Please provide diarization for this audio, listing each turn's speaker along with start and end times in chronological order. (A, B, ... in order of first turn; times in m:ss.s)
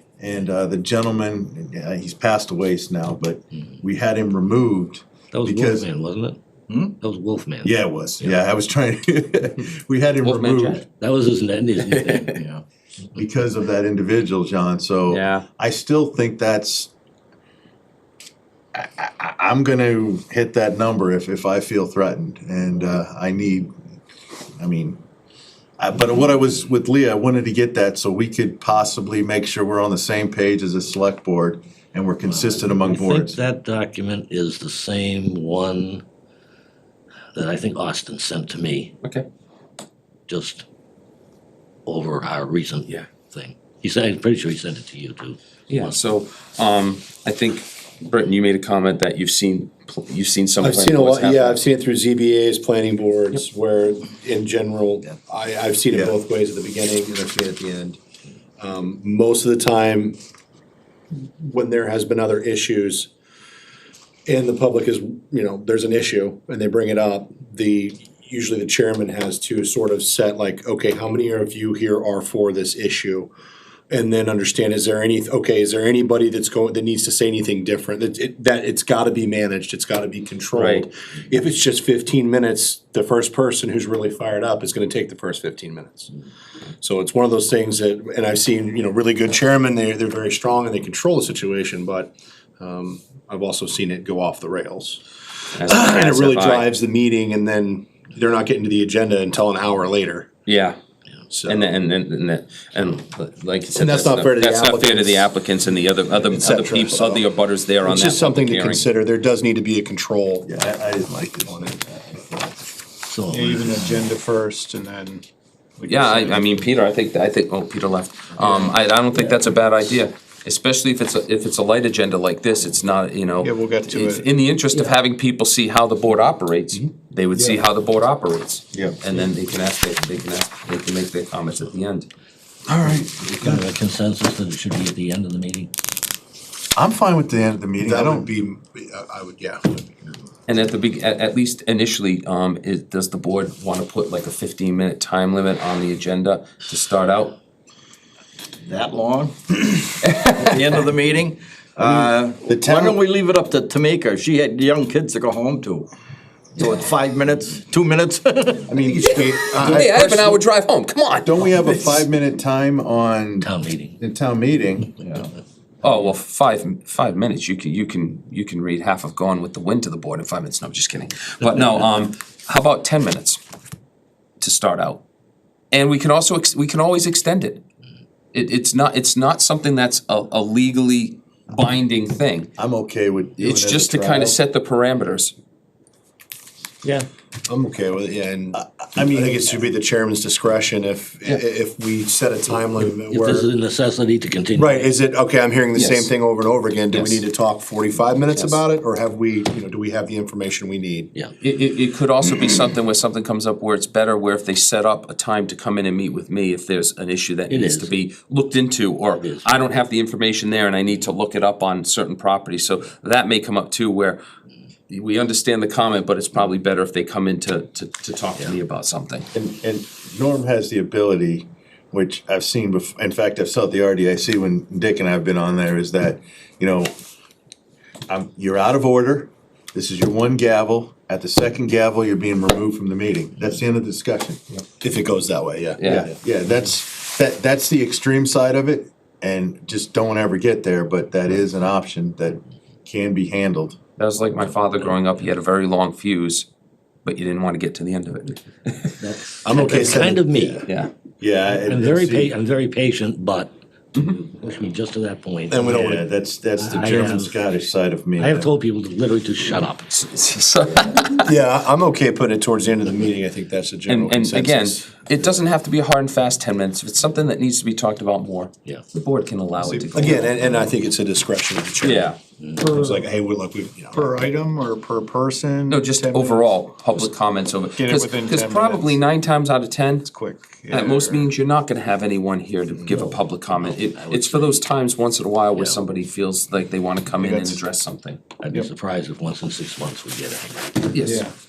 0:00.2-0:05.9 A
0:05.3-0:08.4 B
0:07.6-0:10.9 A
0:10.2-0:10.8 C
0:10.9-0:12.6 B
0:11.9-0:12.4 C
0:13.2-0:16.9 A
0:15.1-0:15.5 C
0:18.7-0:23.8 A
0:24.6-0:25.0 A
0:25.8-0:33.4 A
0:32.3-0:36.0 B
0:37.3-0:38.9 B
0:40.3-0:40.7 B
0:41.9-0:46.0 B
0:45.7-0:51.6 C
0:50.6-0:58.0 D
0:55.9-0:56.2 A
0:58.6-1:00.2 D
1:01.1-1:03.1 D
1:04.3-1:13.3 D
1:13.9-1:26.1 D
1:20.5-1:20.9 C
1:26.8-1:35.0 D
1:35.5-1:36.7 C
1:35.6-1:40.3 D
1:40.5-1:40.8 C
1:41.3-1:41.7 D
1:41.4-1:48.9 C
1:43.7-1:45.3 D
1:46.2-1:47.2 D
1:47.8-1:50.5 D
1:50.4-1:52.6 A
1:51.3-1:51.8 D
1:53.0-1:54.1 B
1:53.3-1:55.2 E
1:55.8-1:56.6 E
1:55.9-2:12.1 C
1:58.4-1:58.7 E
2:03.4-2:04.2 E
2:08.7-2:09.0 A
2:12.7-2:13.7 A
2:13.2-2:15.7 B
2:16.8-2:18.3 A
2:17.8-2:20.2 D
2:20.5-2:27.4 C
2:28.7-2:35.9 F
2:30.1-2:30.6 C
2:31.8-2:33.0 A
2:36.6-2:38.7 F
2:38.7-2:39.9 A
2:38.7-2:40.4 D
2:39.6-2:41.4 C
2:41.2-2:45.3 A
2:43.4-2:44.0 B
2:45.8-2:53.4 C
2:54.4-2:55.0 C
2:55.7-2:57.6 C
2:58.3-3:02.6 C
3:02.6-3:04.4 A
3:03.4-3:05.3 C
3:07.5-3:13.5 D
3:08.5-3:09.6 A
3:13.1-3:14.9 B
3:14.6-3:21.1 D
3:15.8-3:16.1 C
3:21.4-3:34.2 C
3:27.5-3:27.9 B
3:29.2-3:29.5 B
3:34.9-3:39.3 C
3:39.3-3:46.9 A
3:48.1-3:54.4 A
3:54.8-3:56.1 D
3:55.8-3:56.1 C
3:55.8-4:03.8 A
4:04.0-4:06.5 C
4:07.0-4:09.0 C
4:09.0-4:10.7 B
4:09.4-4:10.6 D
4:10.6-4:10.9 C
4:11.2-4:12.3 A
4:11.6-4:13.5 B
4:14.0-4:14.2 C
4:14.2-4:15.8 B
4:15.5-4:16.1 D
4:15.6-4:18.5 A
4:16.6-4:17.4 B
4:18.2-4:19.9 B
4:19.9-4:21.3 C
4:21.2-4:25.0 D
4:23.9-4:30.5 C
4:29.7-4:30.0 E
4:29.9-4:32.2 D
4:31.8-4:32.2 C
4:32.4-4:32.7 B
4:32.6-4:33.0 E
4:32.7-4:34.2 D
4:33.9-4:36.6 E
4:35.7-4:40.1 C
4:37.7-4:39.0 E
4:40.1-4:41.3 E
4:40.7-4:48.4 C
4:43.4-4:44.6 B
4:45.5-4:45.8 B
4:47.2-4:47.6 E
4:48.4-4:51.0 B
4:50.9-4:51.3 C
4:51.0-4:51.3 E